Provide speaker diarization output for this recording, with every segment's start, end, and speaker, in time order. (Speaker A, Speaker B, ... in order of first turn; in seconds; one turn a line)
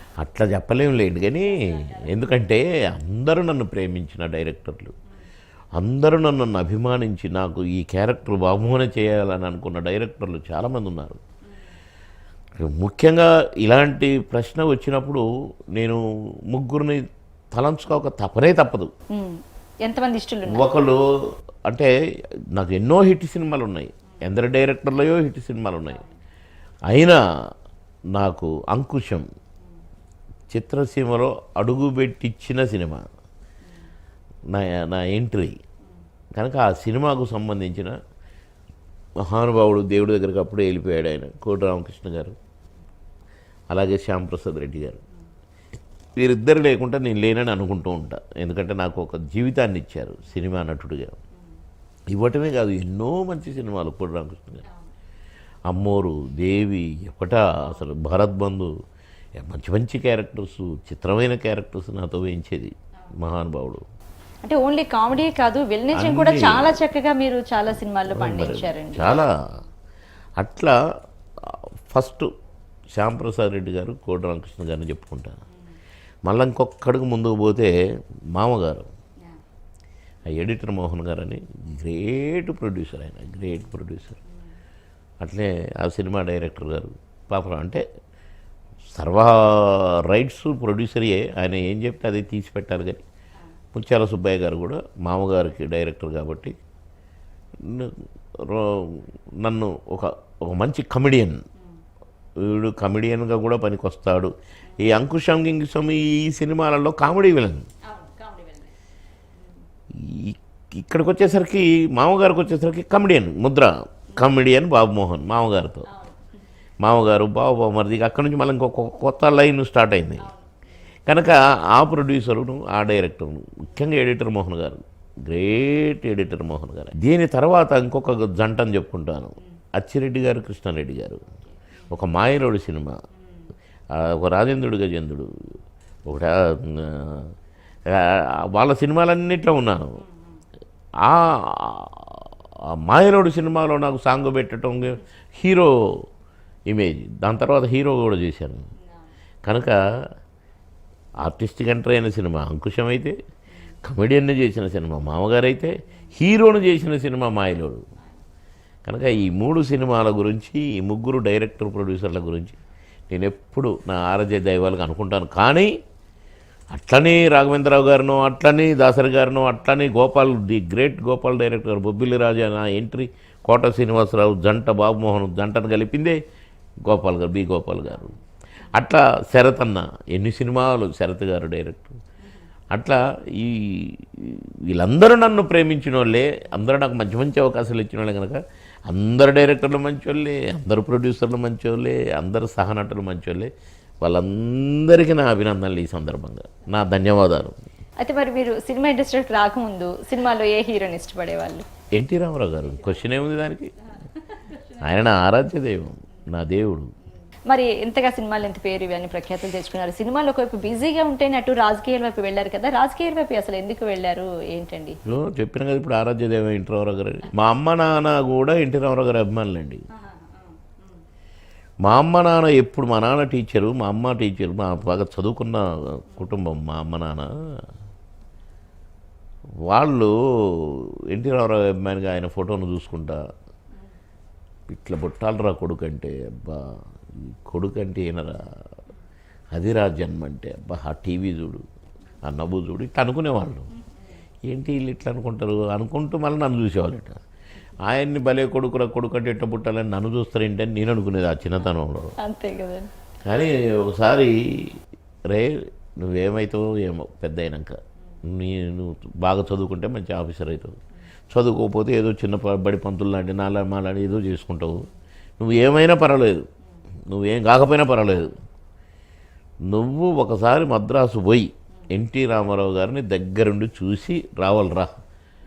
Speaker A: 0.2-5.0
Speaker B: 1.6-2.1
Speaker A: 5.8-11.2
Speaker A: 12.6-18.9
Speaker B: 19.1-20.7
Speaker A: 20.5-21.1
Speaker A: 21.7-21.9
Speaker A: 22.5-26.0
Speaker A: 26.9-27.2
Speaker A: 28.1-29.3
Speaker A: 30.5-33.1
Speaker A: 34.5-35.6
Speaker A: 36.4-38.0
Speaker A: 39.2-42.4
Speaker A: 43.7-45.0
Speaker A: 46.2-51.2
Speaker A: 52.1-54.6
Speaker A: 55.7-58.7
Speaker A: 59.4-63.9
Speaker B: 64.4-69.2
Speaker A: 65.9-66.8
Speaker A: 68.1-69.3
Speaker A: 70.4-70.8
Speaker A: 71.4-72.3
Speaker A: 73.0-75.4
Speaker A: 76.3-77.7
Speaker A: 78.3-78.9
Speaker A: 80.3-84.2
Speaker A: 85.2-87.8
Speaker A: 88.9-93.0
Speaker A: 93.7-96.6
Speaker A: 97.6-101.4
Speaker A: 102.4-107.7
Speaker B: 107.8-108.8
Speaker A: 109.9-115.9
Speaker B: 115.8-116.3
Speaker A: 116.8-120.3
Speaker B: 120.2-120.6
Speaker A: 121.1-131.3
Speaker B: 131.4-131.9
Speaker A: 131.9-133.0
Speaker A: 133.9-137.3
Speaker A: 137.9-140.0
Speaker B: 140.0-140.4
Speaker A: 141.0-146.1
Speaker A: 146.7-148.7
Speaker A: 149.4-150.0
Speaker A: 151.2-153.2
Speaker A: 153.8-157.9
Speaker A: 158.9-165.7
Speaker A: 166.7-176.2
Speaker A: 176.9-178.2
Speaker A: 178.7-182.0
Speaker B: 182.2-182.5
Speaker A: 182.7-197.6
Speaker B: 198.0-201.7
Speaker A: 202.0-203.7
Speaker B: 204.0-205.0
Speaker A: 204.8-206.9
Speaker B: 207.5-215.0
Speaker A: 215.1-219.8
Speaker B: 219.9-221.0
Speaker A: 221.8-227.6
Speaker A: 229.7-233.2
Speaker A: 234.7-238.4
Speaker A: 239.5-241.6
Speaker A: 242.2-243.7
Speaker B: 243.7-244.2
Speaker A: 244.5-247.2
Speaker A: 247.8-252.1
Speaker B: 252.2-252.9
Speaker A: 253.2-260.8
Speaker A: 261.3-266.5
Speaker A: 267.1-268.4
Speaker A: 269.7-274.9